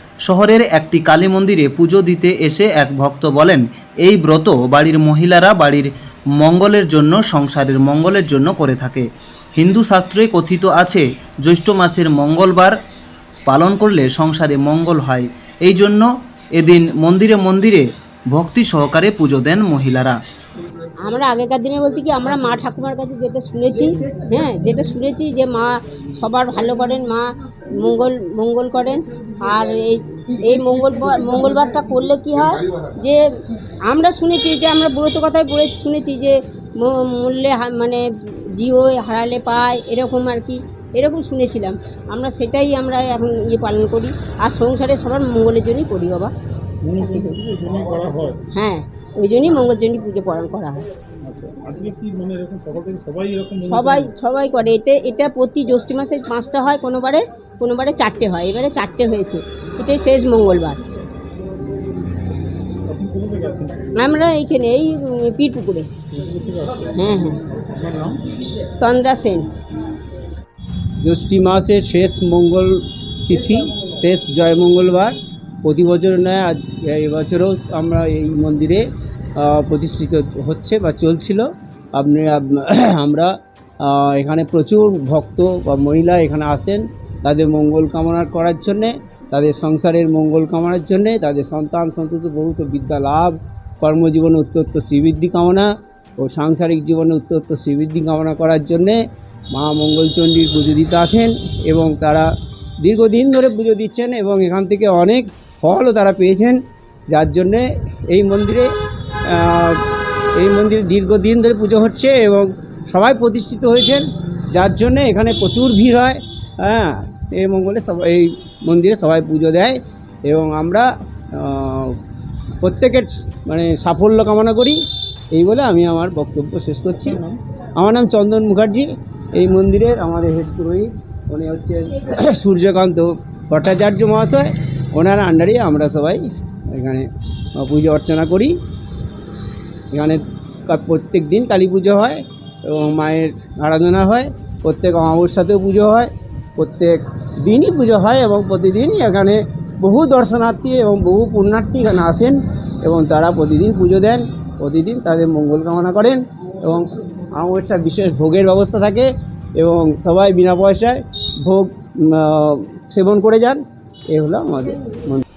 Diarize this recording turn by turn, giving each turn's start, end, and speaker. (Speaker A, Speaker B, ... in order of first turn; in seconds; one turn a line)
Speaker A: 0.3-9.1
Speaker A: 9.6-12.7
Speaker A: 13.4-20.2
Speaker B: 21.0-33.2
Speaker B: 33.9-46.3
Speaker C: 46.8-48.4
Speaker B: 47.0-47.3
Speaker B: 48.5-50.9
Speaker C: 51.2-54.1
Speaker B: 53.6-60.8
Speaker C: 62.9-63.9
Speaker B: 64.0-65.9
Speaker C: 66.1-68.2
Speaker B: 67.0-67.4
Speaker B: 68.8-69.5
Speaker D: 71.0-78.8
Speaker D: 79.4-99.0
Speaker D: 99.5-102.3
Speaker D: 102.8-106.6
Speaker D: 107.1-108.7
Speaker D: 109.2-122.0
Speaker D: 122.6-124.8
Speaker D: 125.3-127.2
Speaker C: 127.0-127.4
Speaker D: 127.8-138.5
Speaker D: 139.9-163.6
Speaker D: 164.1-165.2